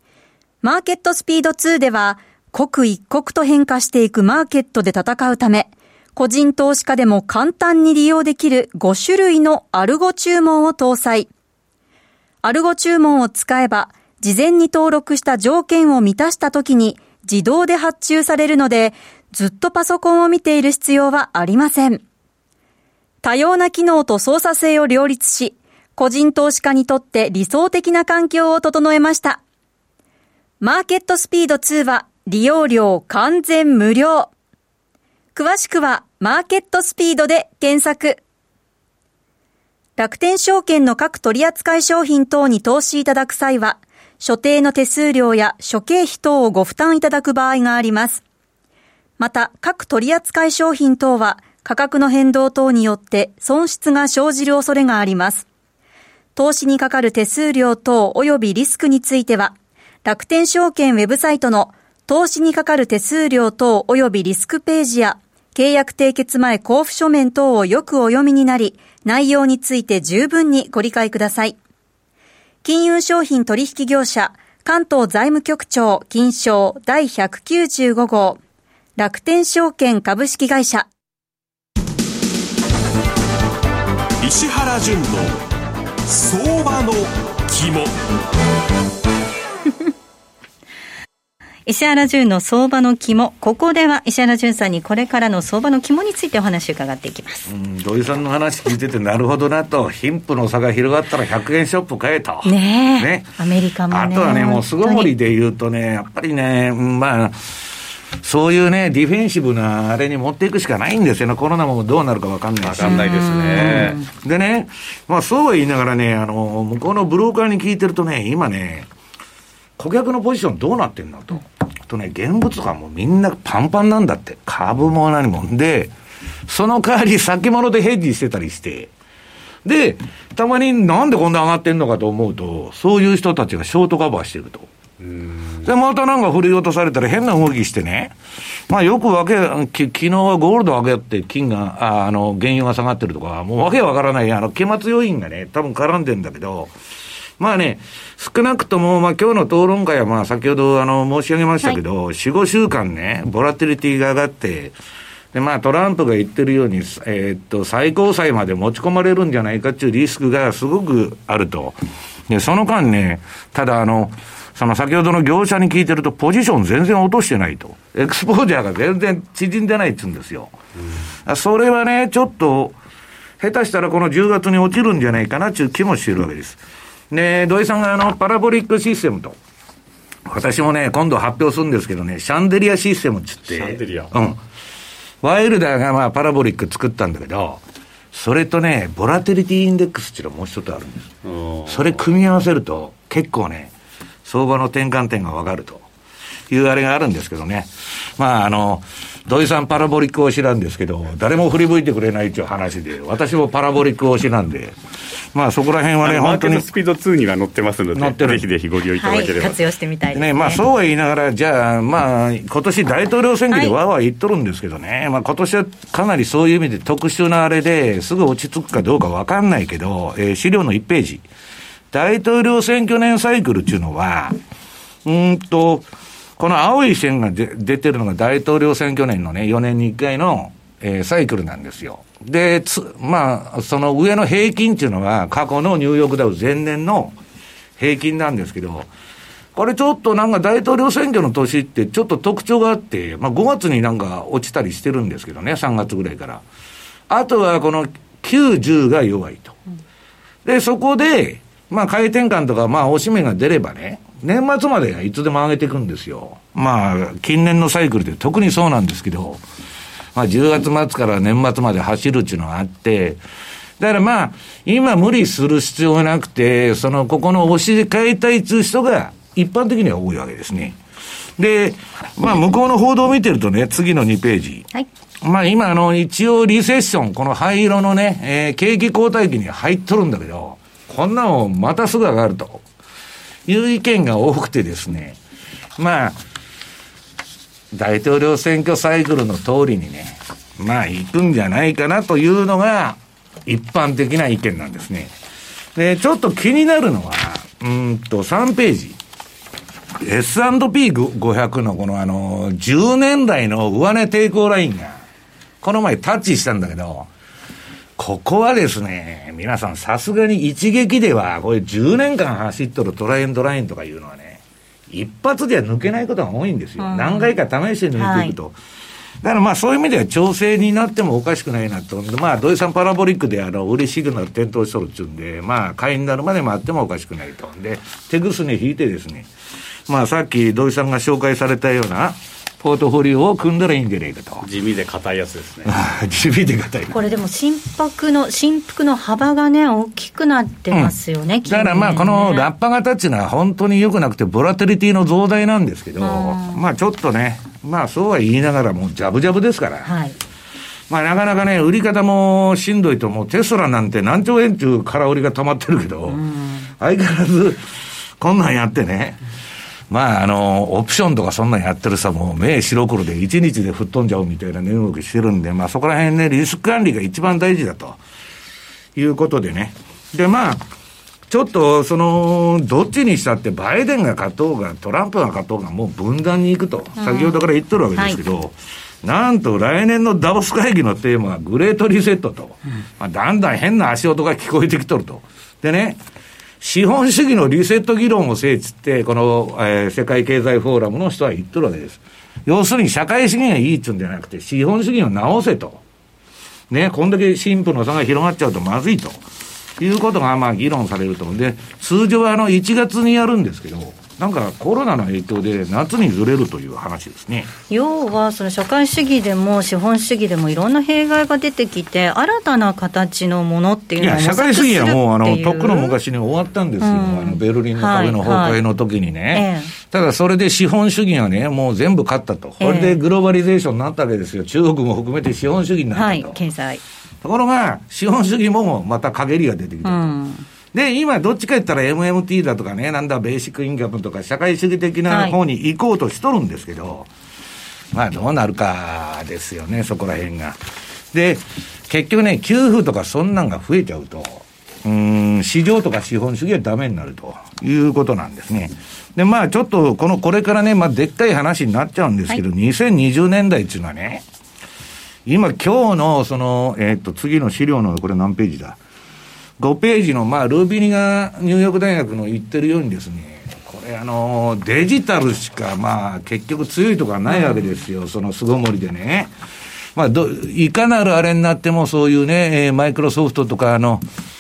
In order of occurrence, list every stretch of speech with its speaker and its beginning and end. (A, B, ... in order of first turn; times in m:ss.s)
0:00.6-0:11.3 A
0:12.4-0:22.0 A
0:23.2-0:29.4 A
0:30.6-0:34.3 A
0:35.4-0:38.2 A
0:40.0-0:48.2 A
0:49.2-0:55.5 A
0:56.4-1:11.6 A
1:12.6-1:18.4 A
1:19.0-1:20.9 A
1:24.2-1:25.3 B
1:26.1-1:27.9 B
1:31.7-1:37.5 C
1:37.5-1:43.4 D
1:42.4-1:45.1 C
1:43.9-1:47.7 D
1:48.2-1:58.9 D
1:52.6-1:54.0 E
1:52.8-1:54.0 C
1:59.8-2:05.9 D
2:06.5-2:08.9 D
2:09.6-2:14.7 D
2:15.0-2:15.7 E
2:15.6-2:18.1 D
2:18.7-2:26.7 D
2:27.4-2:34.8 D
2:35.3-2:41.8 D
2:42.3-2:50.5 D
2:51.3-2:52.8 D
2:53.4-2:56.6 D
2:57.1-2:59.4 D
3:00.3-3:04.4 D
3:03.5-3:04.1 E
3:05.2-3:11.1 D
3:11.2-3:12.0 E
3:11.7-3:13.7 D
3:14.2-3:15.9 D
3:16.5-3:24.8 D
3:25.4-3:26.7 D
3:26.0-3:29.6 E
3:28.0-3:28.5 D
3:29.0-3:30.6 C
3:30.1-3:41.2 D
3:41.9-3:44.4 D
3:45.0-3:45.9 D
3:46.4-3:57.2 D
3:57.8-3:58.9 D
3:59.6-4:06.4 D
4:07.1-4:09.6 D
4:10.4-4:19.4 D
4:20.2-4:23.2 D
4:23.8-4:30.8 D
4:31.4-4:34.7 D
4:35.2-4:42.6 D
4:43.5-4:45.2 D
4:45.8-4:46.2 D
4:47.7-4:55.1 D
4:55.8-4:59.0 D
5:00.0-5:05.0 D
5:05.6-5:07.1 D
5:08.0-5:18.6 D
5:16.8-5:17.3 C
5:18.0-5:18.3 C
5:19.2-5:29.3 D
5:29.9-5:34.5 D
5:34.4-5:35.8 E
5:35.7-5:37.0 D
5:36.9-5:42.5 C
5:40.7-5:49.9 D
5:46.0-5:46.6 C
5:49.8-5:50.2 C
5:50.9-5:56.2 D
5:56.1-5:56.7 C
5:56.8-5:57.6 D
5:58.2-5:59.2 D
5:59.9-6:08.0 D
6:09.0-6:10.7 D
6:11.3-6:26.0 D
6:17.0-6:17.4 C
6:26.6-6:35.8 D
6:36.7-6:39.2 D
6:39.8-6:47.5 D
6:47.7-6:55.9 C
6:54.0-7:06.4 D
6:56.8-6:58.6 C
6:59.3-6:59.7 C
7:02.6-7:03.0 C
7:06.0-7:06.8 C
7:07.2-7:10.1 D
7:09.8-7:10.4 C
7:10.7-7:17.1 D
7:15.1-7:15.4 C
7:17.9-7:20.6 D
7:21.1-7:34.2 D
7:35.3-7:38.8 D
7:39.6-7:49.3 D
7:47.3-7:47.7 C
7:50.0-7:54.0 D